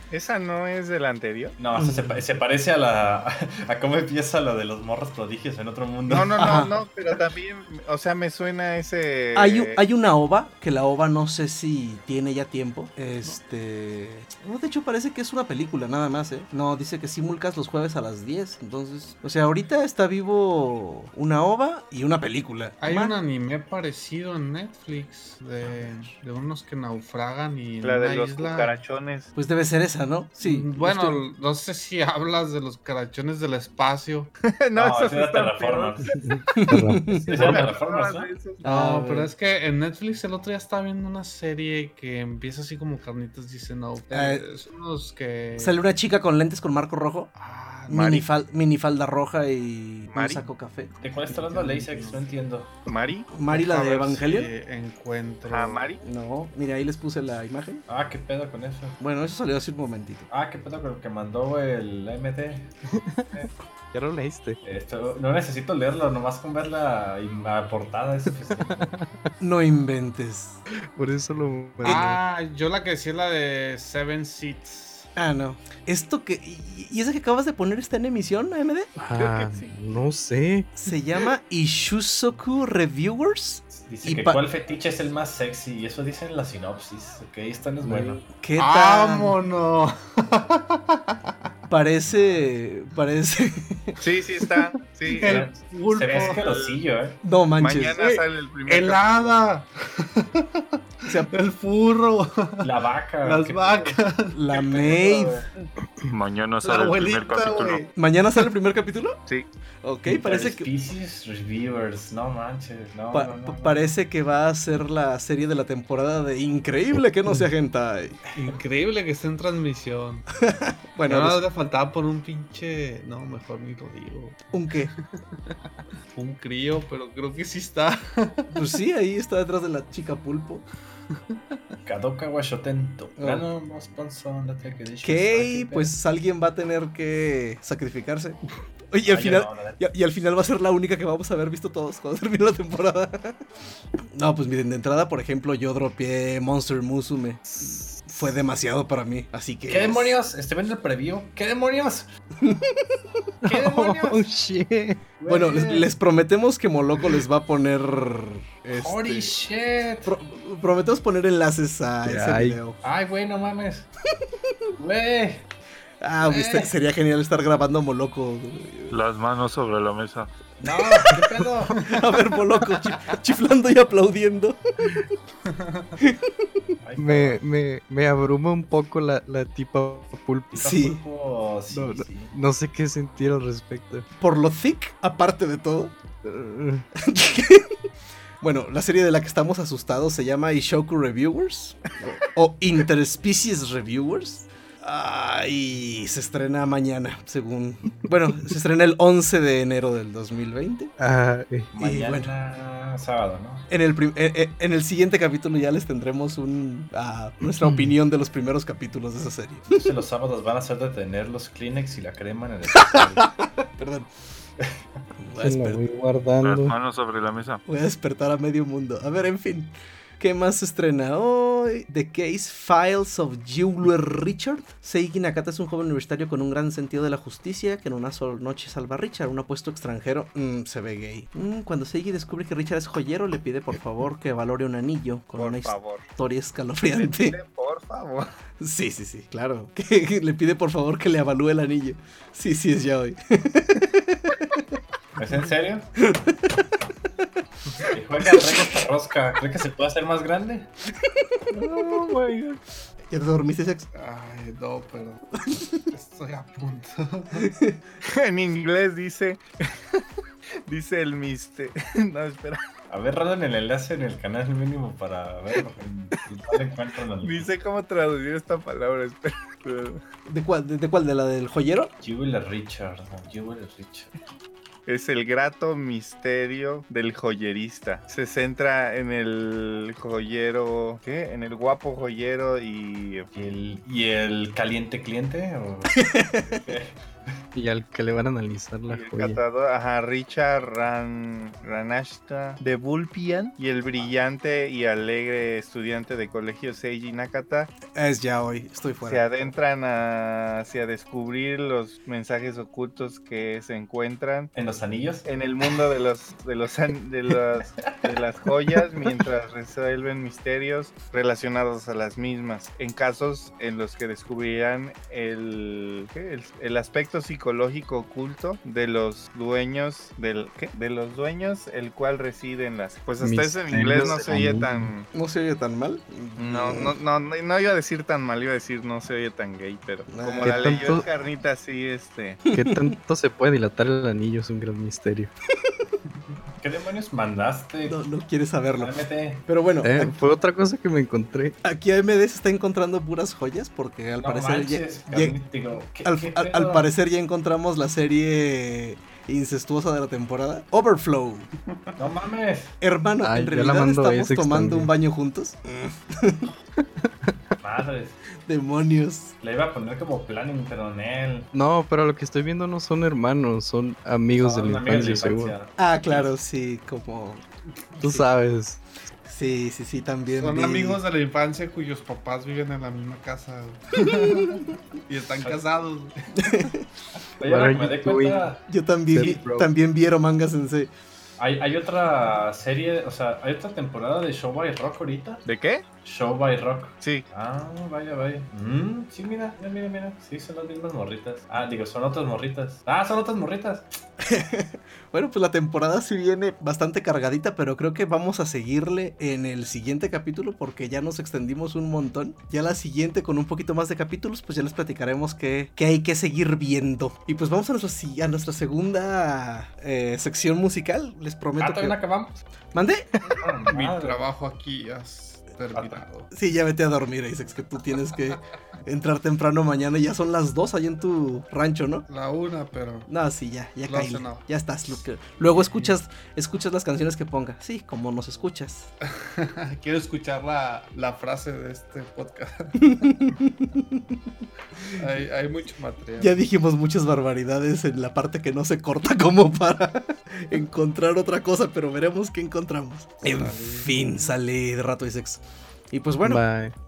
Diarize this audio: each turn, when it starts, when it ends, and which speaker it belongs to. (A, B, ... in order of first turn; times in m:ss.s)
0:00.1-0:01.6 A
0:01.6-0:06.4 B
0:01.8-0:02.2 C
0:06.1-0:09.8 A
0:06.2-0:06.8 C
0:09.3-0:23.1 C
0:22.8-0:28.8 D
0:25.7-0:26.0 C
0:27.8-0:29.3 A
0:29.3-0:31.2 C
0:30.4-0:34.3 D
0:34.4-0:36.1 A
0:34.8-0:36.1 B
0:36.2-0:37.2 E
0:36.5-0:37.6 C
0:37.0-0:38.3 B
0:37.3-0:38.6 A
0:38.6-0:39.3 C
0:38.6-0:45.8 D
0:44.1-0:44.4 C
0:45.6-0:47.3 C
0:47.4-0:48.2 D
0:47.9-0:50.9 C
0:47.9-0:48.2 A
0:50.1-0:50.4 A
0:51.0-0:52.7 B
0:51.6-0:52.2 D
0:52.8-0:53.3 A
0:53.3-0:54.5 C
0:53.5-0:55.9 D
0:55.5-0:56.0 A
0:56.0-0:57.8 C
0:57.9-0:59.0 B
0:59.0-1:00.3 C
1:00.3-1:02.7 B
1:03.9-1:04.6 E
1:04.6-1:08.7 B
1:08.6-1:09.1 E
1:09.4-1:10.6 C
1:10.9-1:12.2 E
1:11.8-1:12.1 C
1:11.8-1:15.1 D
1:15.2-1:18.9 C
1:19.0-1:20.7 E
1:20.8-1:24.4 C
1:23.7-1:28.2 B
1:27.8-1:28.2 E
1:28.3-1:29.3 C
1:28.6-1:31.3 D
1:31.7-1:34.0 C
1:34.0-1:35.5 A
1:35.1-1:36.4 D
1:35.2-1:37.2 B
1:36.1-1:36.8 A
1:37.2-1:38.0 C
1:37.6-1:39.3 A
1:37.9-1:42.7 D
1:42.6-1:45.7 B
1:43.2-1:45.0 D
1:44.3-1:45.4 C
1:46.1-1:47.8 A
1:46.6-1:47.9 D
1:48.0-1:49.2 C
1:49.8-1:50.7 C
1:50.0-1:53.9 B
1:53.1-1:58.2 C
1:58.3-2:00.2 D
2:00.4-2:01.4 C
2:01.1-2:04.4 D
2:04.5-2:04.9 C
2:06.1-2:08.6 D
2:08.5-2:10.6 C
2:11.8-2:15.9 B
2:13.2-2:13.4 C
2:15.0-2:18.4 C
2:18.9-2:23.4 C
2:19.0-2:19.8 B
2:24.1-2:30.1 C
2:27.4-2:28.1 E
2:29.7-2:32.1 B
2:32.4-2:33.0 C
2:33.4-2:35.1 E
2:33.4-2:34.2 B
2:35.2-2:35.9 B
2:35.3-2:39.3 C
2:38.7-2:40.1 B
2:40.0-2:42.8 C
2:42.0-2:42.7 E
2:42.8-2:43.9 B
2:44.8-2:45.4 B
2:46.0-2:49.0 C
2:46.2-2:46.7 B
2:48.9-2:50.3 A
2:50.6-2:51.8 B
2:50.6-2:55.0 C
2:55.4-2:56.0 D
2:56.0-2:56.4 C
2:56.8-2:57.4 B
2:57.0-3:00.8 E
3:00.5-3:02.3 B
3:00.6-3:01.0 C
3:01.7-3:04.0 E
3:04.2-3:05.9 C
3:06.2-3:06.8 E
3:07.0-3:07.7 C
3:08.4-3:20.9 C
3:21.0-3:21.7 E
3:21.7-3:23.6 B
3:21.8-3:22.3 C
3:23.7-3:29.9 C
3:27.6-3:27.9 E
3:29.7-3:33.3 B
3:33.7-3:34.1 C
3:35.2-3:35.8 C
3:35.4-3:36.7 E
3:36.4-3:37.6 A
3:37.6-3:57.4 C
3:55.4-3:56.0 A
3:57.0-3:58.3 A
3:58.6-4:04.7 C
4:05.2-4:05.9 B
4:06.0-4:06.8 C
4:07.9-4:10.7 B
4:11.5-4:12.6 A
4:13.1-4:13.9 C
4:13.9-4:15.2 D
4:15.4-4:15.8 C
4:15.9-4:17.5 D
4:17.4-4:17.8 C
4:18.0-4:19.4 A
4:20.7-4:22.6 A
4:22.9-4:27.5 B
4:27.2-4:30.0 A
4:30.3-4:31.9 C
4:32.0-4:34.1 B
4:34.9-4:43.3 A
4:43.3-4:47.3 B
4:46.1-4:46.6 C
4:47.5-4:49.4 E
4:48.9-4:57.7 A
4:57.9-4:59.2 C
4:59.0-5:04.5 A
5:04.5-5:05.2 B
5:05.2-5:25.1 A
5:07.8-5:08.2 B
5:23.2-5:24.9 E
5:25.1-5:26.9 C
5:26.4-5:32.4 A
5:30.1-5:31.0 C
5:30.4-5:31.0 E
5:32.5-5:33.0 C
5:32.5-5:35.3 E
5:36.6-5:38.0 B
5:37.8-5:40.1 C
5:38.8-5:39.4 B
5:39.8-5:41.6 E
5:41.6-5:45.4 C
5:44.2-5:46.9 B
5:46.0-5:51.5 C
5:52.0-5:52.7 B
5:52.8-5:56.5 C
5:53.2-5:54.9 E
5:57.6-5:58.2 B
5:58.4-5:59.3 C
5:59.4-6:01.5 B
6:01.5-6:05.5 E
6:04.3-6:06.3 B
6:05.8-6:07.4 C
6:08.0-6:08.8 E
6:08.0-6:08.2 C
6:09.2-6:11.0 C
6:10.4-6:16.2 D
6:14.0-6:14.6 C
6:16.4-6:16.8 C
6:17.4-6:18.6 B
6:17.4-6:18.5 E
6:18.7-6:20.9 C
6:19.1-6:19.7 E
6:21.4-6:25.4 B
6:25.4-6:25.8 A
6:26.0-6:33.9 B
6:34.2-6:52.0 C
6:51.6-6:52.4 B
6:52.7-6:53.1 C
6:53.2-6:56.3 D
6:53.3-6:54.2 B
6:56.3-7:02.1 C
7:02.1-7:03.1 D
7:03.1-7:08.9 C
7:03.9-7:04.4 D
7:05.5-7:05.9 D
7:09.2-7:13.4 D
7:12.8-7:14.1 C
7:14.9-7:16.3 D
7:16.2-7:26.4 C
7:23.6-7:24.0 D
7:26.2-7:26.7 E